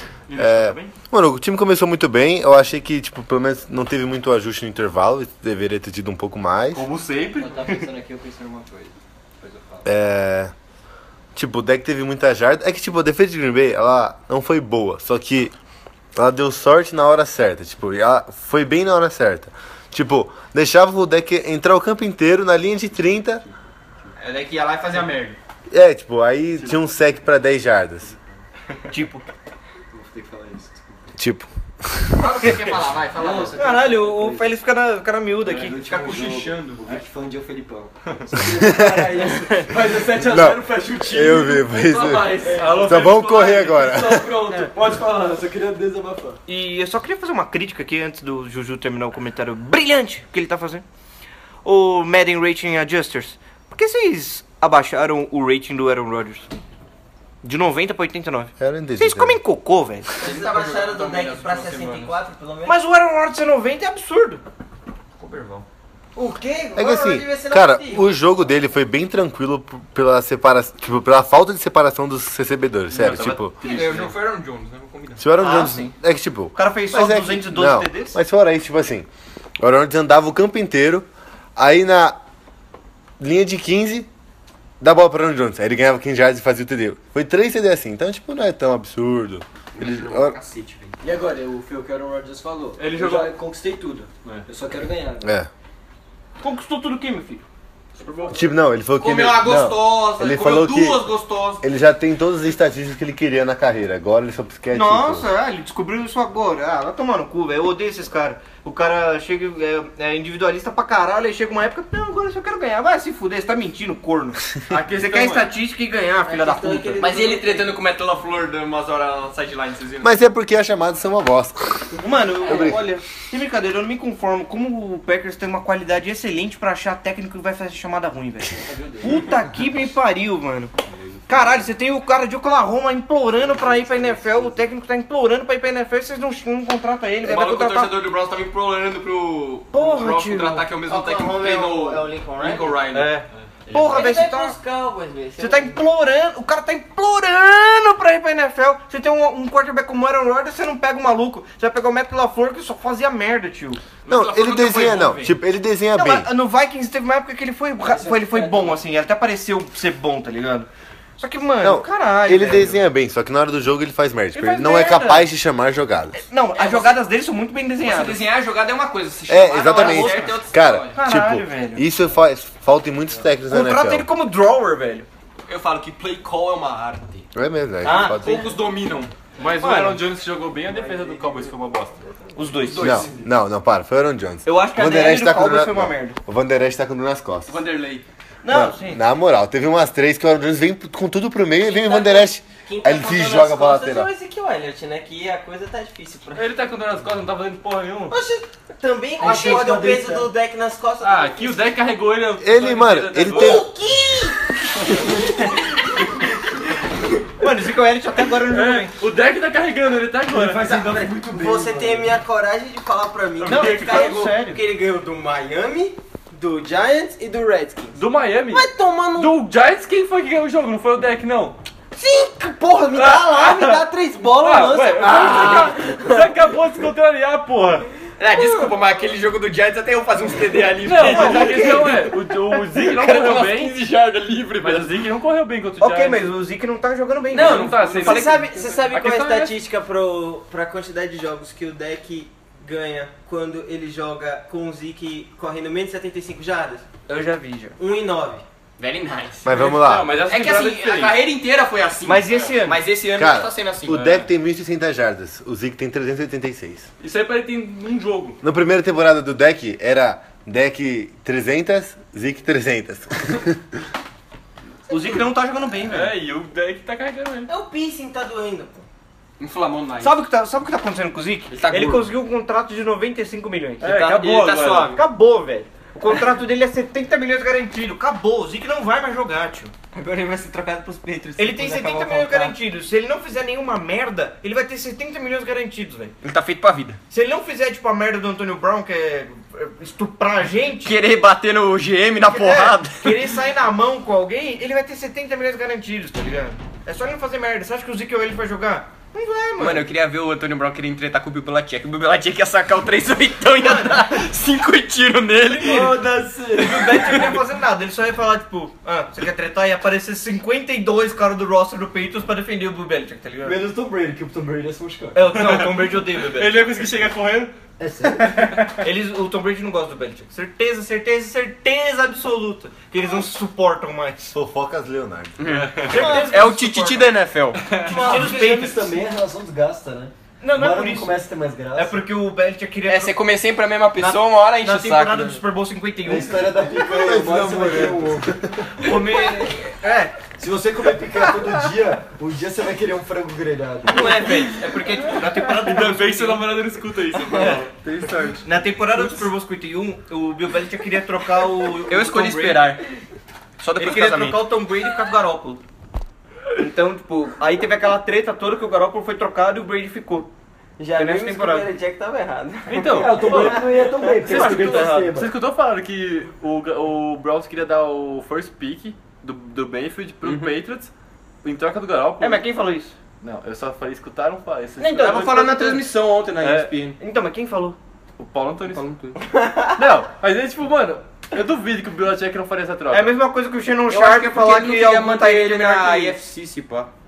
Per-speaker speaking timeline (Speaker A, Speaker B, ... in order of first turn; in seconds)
Speaker A: 0.3-0.7, 6.7-7.6, 42.5-43.8, 72.9-74.2, 92.8-93.3, 98.0-98.4, 114.9-115.5, 128.7-129.2, 130.9-131.6, 179.4-182.0, 196.3-198.2, 201.0-203.6, 208.5-210.8, 213.4-214.1, 217.9-221.6, 222.9-227.9, 230.8-236.3, 237.3-239.5, 249.5-251.2, 253.9-254.3, 257.0-258.4, 265.9-267.5, 273.8-275.0, 315.3-317.5, 325.4-326.3, 327.6-328.2, 345.4-347.7, 362.7-370.9, 371.4-372.4, 373.2-375.5, 376.4-376.7, 378.2-378.9, 379.7-383.2
Speaker B: 0.3-6.8, 9.8-10.5, 11.3-15.5, 16.1-23.4, 25.7-28.1, 31.2-32.5, 38.5-39.0, 40.1-44.3, 58.6-59.4, 66.8-73.5, 75.2-79.1, 79.6-82.2, 83.2-84.1, 84.8-90.4, 95.2-95.5, 98.3-105.3, 120.0-121.9, 122.4-122.9, 154.1-156.3, 161.6-166.2, 169.3-174.1, 177.3-178.5, 182.8-187.6, 188.5-194.1, 202.4-203.7, 249.4-250.2, 253.1-256.9, 258.4-263.6, 324.3-325.4, 336.7-338.7, 347.9-348.2
Speaker C: 7.3-9.8, 29.9-31.1, 33.1-34.6, 35.4-46.4, 91.0-95.3, 99.4-99.7, 133.4-134.5, 157.8-158.8, 182.6-183.3, 199.2-200.3, 210.3-212.2, 305.5-307.3, 313.4-315.2, 317.8-318.5, 327.9-332.1, 336.0-338.6, 340.4-344.2, 348.1-348.4, 362.8-365.3
Speaker D: 24.2-25.4, 32.1-33.7, 60.2-62.1, 65.2-65.6, 73.6-75.2, 89.8-91.0, 99.0-101.6, 115.1-115.4, 117.0-120.1, 137.2-143.1, 154.1-155.3, 166.5-167.0, 167.8-171.0, 175.5-177.3, 178.0-179.1, 187.5-188.0, 228.2-235.0, 237.4-237.7, 248.8-249.5, 250.2-254.1, 269.4-270.1, 271.5-272.1, 274.3-274.8, 286.2-287.0, 290.8-293.2, 299.6-306.0, 325.4-327.8, 332.8-335.4, 351.9-352.8, 353.6-354.4, 370.2-370.5, 374.8-377.0, 378.7-379.2, 383.9-386.9
Speaker E: 28.9-29.2, 33.5-36.8, 39.3-39.7, 46.5-50.8, 51.6-56.5, 57.4-60.2, 62.6-64.4, 75.4-75.9, 76.5-78.2, 96.4-97.4, 104.7-117.2, 122.0-130.7, 131.3-138.1, 139.7-140.8, 142.9-144.6, 145.4-153.8, 155.9-160.7, 161.2-162.8, 164.3-165.3, 166.2-168.2, 169.7-170.4, 170.9-171.8, 173.5-175.1, 177.8-178.5, 179.6-180.0, 182.3-183.1, 184.4-186.2, 188.4-189.0, 207.4-208.9, 213.4-214.6, 231.0-232.0, 235.8-238.4, 247.1-247.8, 252.0-252.9, 264.9-266.1, 270.0-279.7, 281.4-286.1, 287.1-291.0, 292.2-299.9, 303.6-304.2, 306.5-313.6, 315.1-316.7, 318.3-324.3, 325.8-329.0, 330.4-331.2, 331.7-333.2, 333.9-336.5, 338.8-340.2, 343.8-346.6, 347.3-347.6, 348.4-352.8, 353.8-355.6, 356.6-360.3, 360.9-361.7, 364.2-365.1, 372.2-372.9, 374.8-375.8, 377.0-377.8, 382.9-386.2
Speaker F: 60.2-62.8, 66.1-68.2, 116.2-117.8, 140.8-142.7, 143.7-145.8, 191.6-196.5, 198.1-201.7, 203.3-205.3, 211.1-219.4, 221.9-226.3, 228.4-228.7, 237.3-246.8, 247.8-248.4, 267.5-268.9, 279.9-282.6, 360.8-364.0, 379.2-379.8